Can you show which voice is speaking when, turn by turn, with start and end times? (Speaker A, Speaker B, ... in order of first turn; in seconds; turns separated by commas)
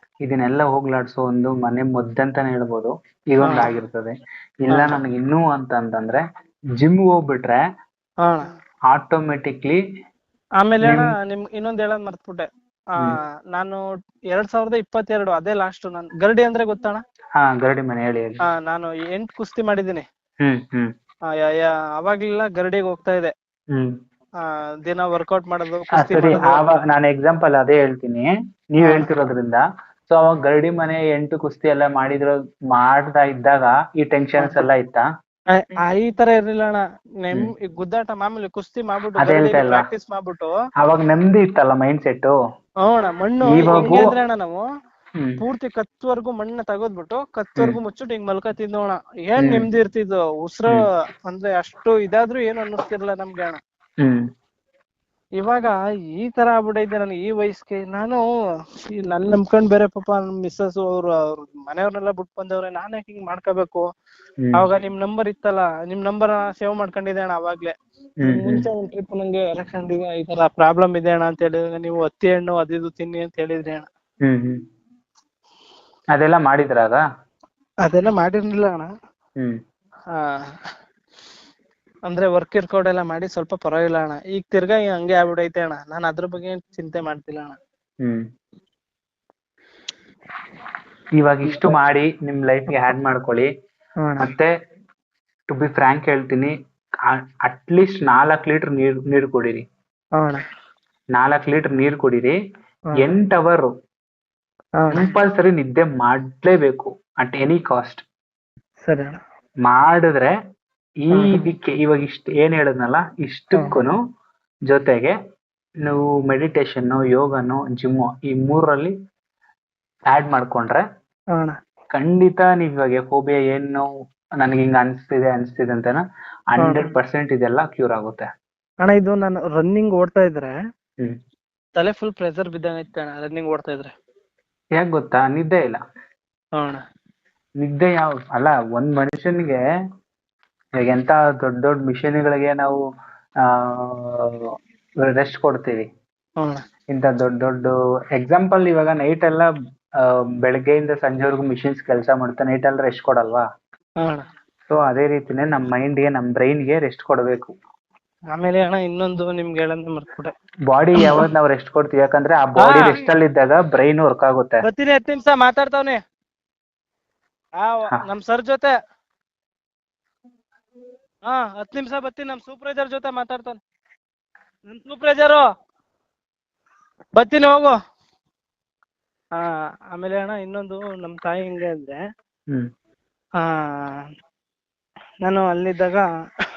Speaker A: 0.3-4.1, Speaker B: 3.4-3.7, Speaker A: 4.7-6.2, Speaker B: 4.7-5.0, Speaker A: 6.8-7.6, Speaker A: 8.9-9.8, Speaker B: 10.6-13.8, Speaker B: 14.3-17.0, Speaker A: 17.4-18.4, Speaker B: 18.5-20.0, Speaker A: 20.4-20.9, Speaker B: 21.4-23.3, Speaker B: 24.4-26.8, Speaker A: 26.0-35.0, Speaker B: 28.8-29.1, Speaker B: 34.4-34.6, Speaker B: 35.5-40.5, Speaker A: 39.2-39.9, Speaker A: 40.8-42.4, Speaker B: 42.8-44.6, Speaker A: 43.5-44.1, Speaker B: 45.4-53.6, Speaker A: 49.4-49.7, Speaker B: 55.4-58.2, Speaker B: 59.1-63.9, Speaker B: 64.5-73.9, Speaker A: 68.2-68.7, Speaker A: 74.2-74.6, Speaker A: 76.2-77.0, Speaker B: 77.8-78.9, Speaker B: 82.1-87.6, Speaker A: 91.2-93.5, Speaker B: 94.0-94.3, Speaker A: 94.2-94.5, Speaker A: 95.5-96.5, Speaker A: 97.1-99.6, Speaker B: 100.2-100.4, Speaker A: 101.2-102.4, Speaker A: 103.0-103.7, Speaker B: 104.8-105.1, Speaker A: 104.9-108.0, Speaker B: 108.8-109.2, Speaker A: 109.7-110.3, Speaker A: 111.1-114.0, Speaker B: 111.2-111.5, Speaker A: 114.7-115.2, Speaker A: 115.8-118.9, Speaker A: 120.1-120.8, Speaker A: 121.9-123.9, Speaker A: 124.4-128.3, Speaker B: 126.6-126.9, Speaker B: 128.8-130.5, Speaker B: 131.8-133.9, Speaker A: 134.8-135.8, Speaker A: 137.6-139.6, Speaker A: 140.8-142.8, Speaker A: 143.4-144.3, Speaker A: 145.1-145.9, Speaker A: 146.9-149.5, Speaker A: 150.0-153.4, Speaker A: 154.7-157.5, Speaker B: 158.3-160.3, Speaker A: 160.7-164.6, Speaker B: 162.6-163.0, Speaker B: 164.6-166.0, Speaker B: 167.6-168.7, Speaker B: 171.3-173.6, Speaker B: 174.7-175.4, Speaker B: 177.2-177.8, Speaker B: 179.4-182.0, Speaker B: 183.4-184.0, Speaker B: 185.2-186.1